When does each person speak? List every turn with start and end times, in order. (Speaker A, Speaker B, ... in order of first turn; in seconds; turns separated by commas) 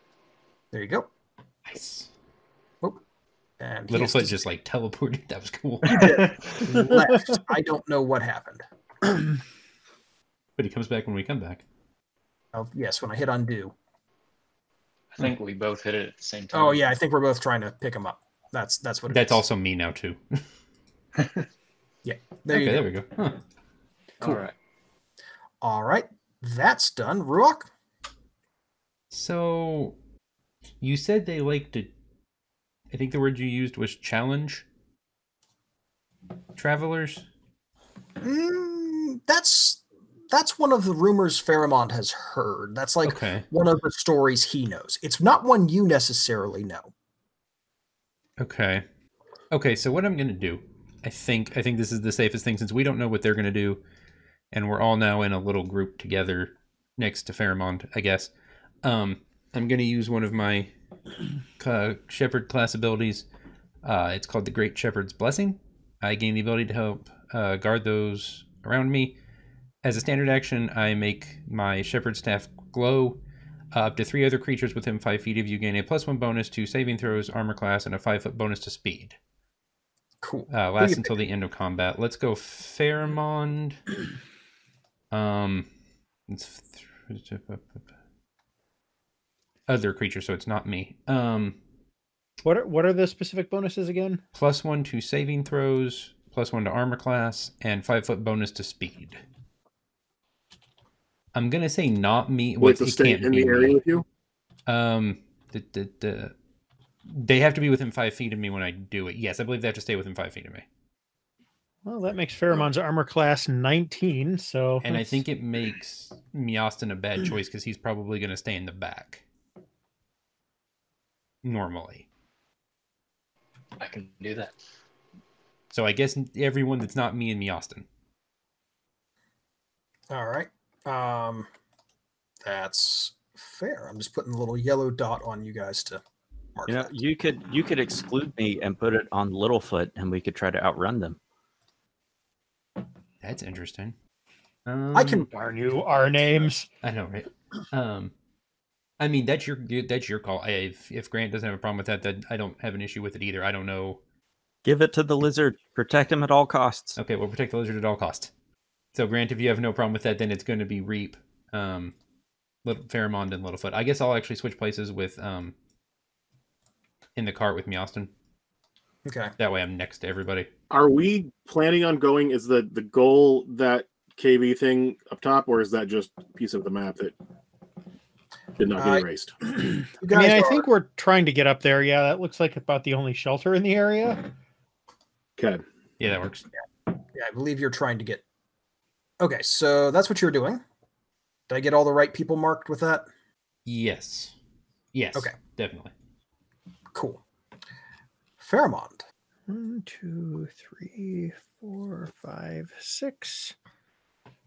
Speaker A: 0.7-1.1, Speaker B: 1.7-2.1, Speaker A: 3.6-4.4, Speaker B: 3.9-6.1, Speaker A: 5.9-8.7, Speaker C: 6.0-6.5, Speaker B: 10.6-11.6, Speaker A: 12.5-13.7, Speaker C: 15.2-16.9, Speaker A: 16.5-19.4, Speaker B: 19.1-20.4, Speaker C: 21.2-21.4, Speaker A: 22.1-22.9, Speaker B: 22.5-23.4, Speaker C: 24.2-24.5, Speaker A: 25.6-27.7, Speaker B: 29.1-30.0, Speaker B: 30.8-31.9, Speaker B: 32.9-34.6, Speaker B: 36.6-37.3, Speaker A: 38.2-46.9, Speaker B: 43.0-43.5, Speaker B: 48.4-48.9, Speaker B: 49.5-53.8, Speaker B: 54.5-58.3, Speaker B: 58.8-60.7, Speaker B: 61.6-63.3, Speaker B: 63.8-69.2, Speaker B: 69.8-73.2, Speaker B: 73.7-79.2, Speaker A: 80.2-81.2, Speaker B: 80.5-83.8, Speaker B: 85.1-85.7, Speaker B: 86.3-87.9, Speaker B: 89.7-91.6, Speaker D: 92.4-94.2, Speaker B: 94.3-99.2, Speaker B: 101.3-103.8, Speaker E: 102.6-104.0, Speaker B: 104.7-106.3, Speaker B: 107.1-110.7, Speaker D: 111.9-115.2, Speaker B: 114.8-119.2, Speaker B: 121.4-122.1, Speaker C: 123.8-124.5, Speaker B: 125.7-127.9, Speaker A: 130.1-131.5, Speaker A: 132.4-136.0, Speaker A: 136.6-137.0, Speaker F: 136.7-141.2, Speaker B: 143.2-143.9, Speaker B: 144.7-145.3, Speaker A: 144.9-145.3, Speaker D: 145.3-146.7, Speaker B: 146.8-148.1, Speaker B: 149.0-154.0, Speaker F: 154.6-157.0, Speaker B: 157.0-158.3, Speaker B: 158.9-161.9, Speaker B: 162.6-165.5, Speaker B: 167.2-168.1, Speaker A: 169.1-169.3, Speaker B: 169.4-170.5, Speaker E: 170.7-177.1, Speaker E: 178.6-179.3, Speaker A: 178.8-179.1, Speaker A: 180.0-180.7, Speaker D: 180.1-184.3, Speaker E: 185.4-185.6, Speaker B: 186.0-186.4, Speaker A: 187.1-188.2, Speaker A: 189.2-190.6, Speaker A: 191.5-193.1, Speaker B: 193.7-194.3, Speaker B: 194.9-195.9, Speaker A: 196.9-197.2, Speaker A: 198.4-199.0, Speaker D: 199.5-203.6